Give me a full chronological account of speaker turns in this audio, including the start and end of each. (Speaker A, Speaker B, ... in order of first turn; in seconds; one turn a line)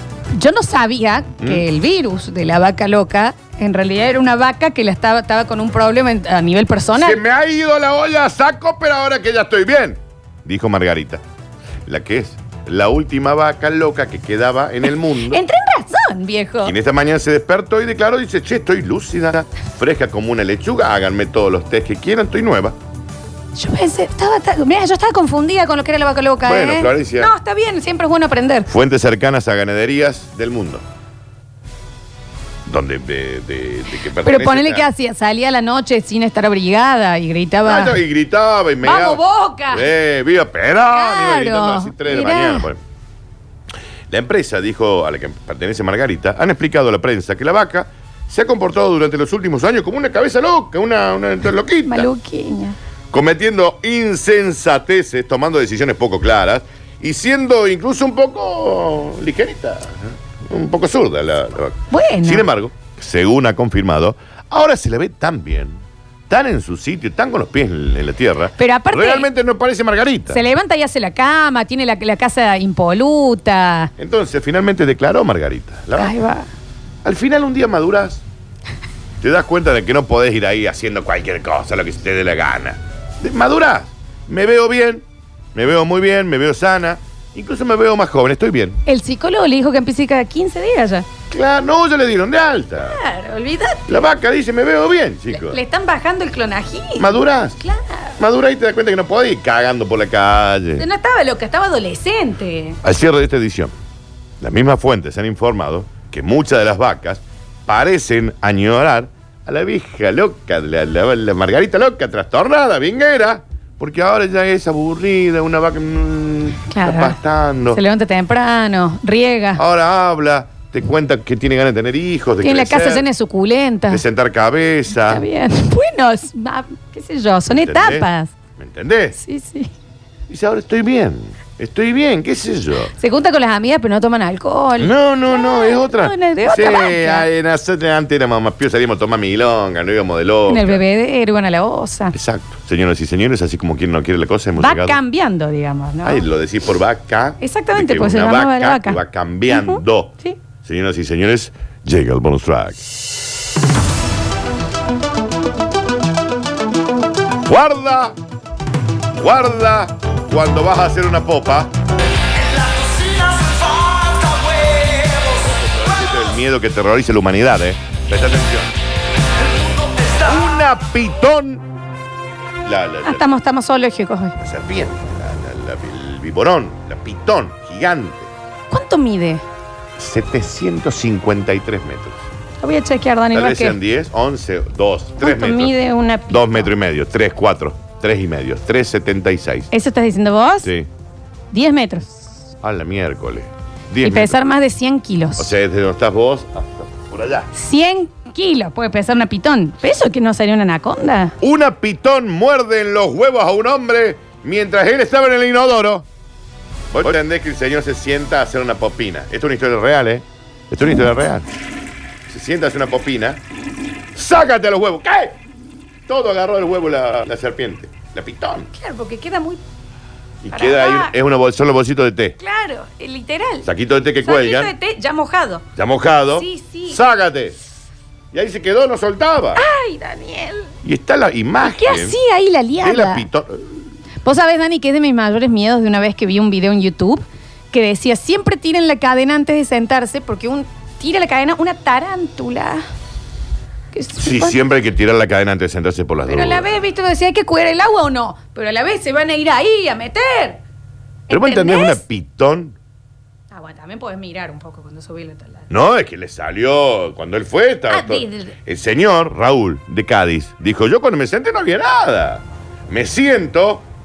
Speaker A: 0.3-7.2
Speaker B: 7.0-11.2
Speaker B: 11.9-15.4
Speaker A: 15.2-16.7
Speaker B: 16.6-22.8
Speaker A: 23.6-28.7
Speaker B: 26.4-27.3
Speaker B: 28.7-30.8
Speaker B: 32.7-34.9
Speaker A: 34.1-38.0
Speaker B: 37.6-42.8
Speaker A: 38.8-39.9
Speaker A: 40.9-42.7
Speaker B: 44.1-52.1
Speaker A: 51.9-52.8
Speaker B: 53.1-70.4
Speaker A: 61.9-62.5
Speaker A: 68.6-69.3
Speaker A: 70.3-73.9
Speaker B: 74.0-76.2
Speaker A: 76.0-76.5
Speaker B: 77.0-78.2
Speaker B: 79.2-88.8
Speaker A: 88.9-91.1
Speaker B: 91.3-93.0
Speaker A: 92.8-93.9
Speaker B: 93.9-95.6
Speaker A: 95.3-98.2
Speaker B: 97.0-97.6
Speaker B: 98.2-100.8
Speaker A: 100.8-102.8
Speaker B: 102.8-103.7
Speaker B: 104.4-117.8
Speaker A: 116.7-117.2
Speaker A: 117.7-119.6
Speaker B: 119.6-123.0
Speaker A: 122.4-124.0
Speaker B: 123.9-125.2
Speaker A: 124.9-128.3
Speaker B: 127.5-129.2
Speaker A: 129.2-129.7
Speaker B: 130.3-132.9
Speaker A: 133.0-137.3
Speaker B: 134.8-140.8
Speaker A: 140.5-142.2
Speaker B: 142.1-145.0
Speaker A: 144.6-146.2
Speaker B: 146.0-152.9
Speaker A: 147.4-150.4
Speaker B: 157.5-158.2
Speaker B: 159.2-161.7
Speaker B: 165.2-168.7
Speaker B: 170.0-171.7
Speaker B: 172.7-173.3
Speaker A: 173.1-174.4
Speaker B: 174.4-178.3
Speaker A: 178.7-179.4
Speaker B: 180.0-182.2
Speaker A: 182.6-183.8
Speaker B: 183.3-185.7
Speaker A: 185.2-186.7
Speaker B: 186.3-189.7
Speaker A: 189.7-190.7
Speaker A: 191.5-192.3
Speaker B: 192.6-194.4
Speaker A: 194.0-195.5
Speaker B: 195.4-197.5
Speaker A: 197.5-201.3
Speaker B: 201.4-206.1
Speaker B: 206.9-211.5
Speaker B: 212.3-213.4
Speaker B: 214.2-215.3
Speaker B: 216.1-218.7
Speaker A: 218.7-219.6
Speaker B: 220.4-222.4
Speaker A: 220.5-221.1
Speaker A: 222.4-223.7
Speaker B: 223.7-224.7
Speaker A: 224.2-225.7
Speaker B: 225.8-227.6
Speaker A: 226.4-227.0
Speaker B: 228.3-229.6
Speaker A: 229.6-230.7
Speaker B: 230.8-232.2
Speaker A: 231.6-233.3
Speaker B: 232.8-233.6
Speaker A: 234.2-242.8
Speaker A: 243.9-244.6
Speaker B: 244.2-246.8
Speaker A: 246.3-250.6
Speaker A: 251.3-252.0
Speaker B: 251.3-252.8
Speaker A: 253.5-255.7
Speaker B: 255.7-263.9
Speaker A: 257.9-258.5